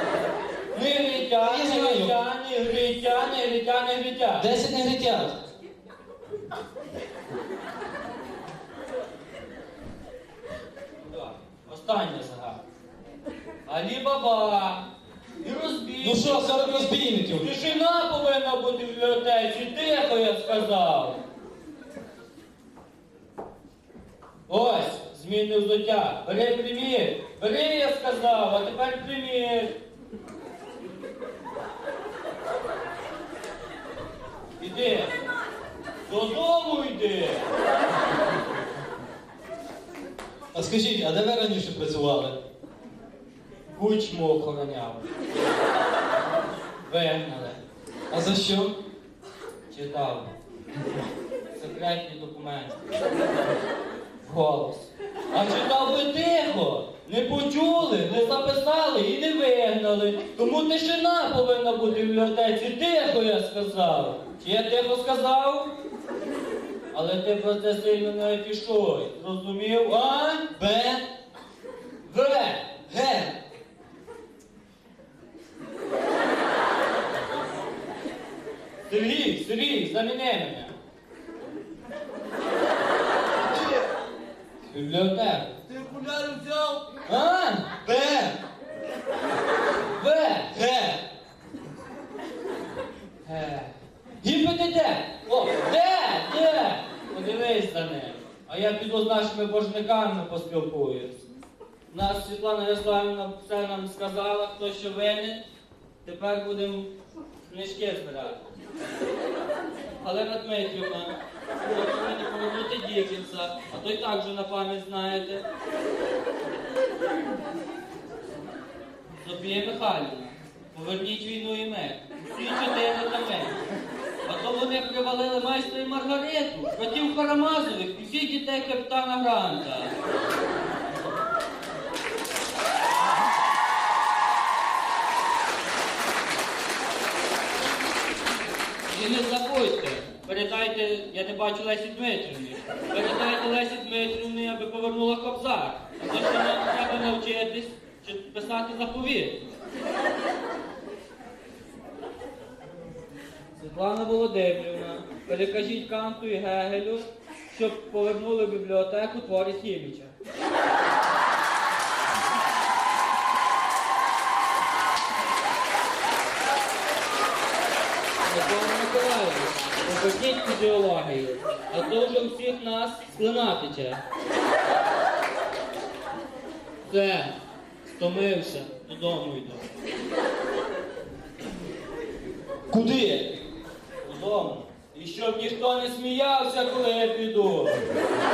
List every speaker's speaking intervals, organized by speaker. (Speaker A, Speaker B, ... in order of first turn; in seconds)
Speaker A: 0.7-4.5, 11.0-12.6, 13.7-14.9, 15.4-21.2, 24.5-29.8, 34.6-35.1, 36.1-37.5, 43.7-45.1, 46.9-47.6, 49.7-50.3, 51.6-52.9, 54.2-65.8, 66.9-70.5, 72.1-72.8, 78.9-80.7, 84.7-85.5, 87.0-87.8, 89.9-90.6, 93.2-101.2, 101.9-105.4, 106.0-108.4, 110.0-115.5, 119.2-123.6, 124.3-129.9, 138.9-149.4, 153.6-160.1, 168.2-174.0, 176.9-179.7, 184.0-187.8
Speaker B: 1.4-2.1, 4.4-5.4, 16.0-17.5, 40.5-42.4, 48.1-48.8, 70.6-71.1, 72.9-73.3, 85.8-86.8, 87.8-88.4, 90.5-91.0, 182.7-183.3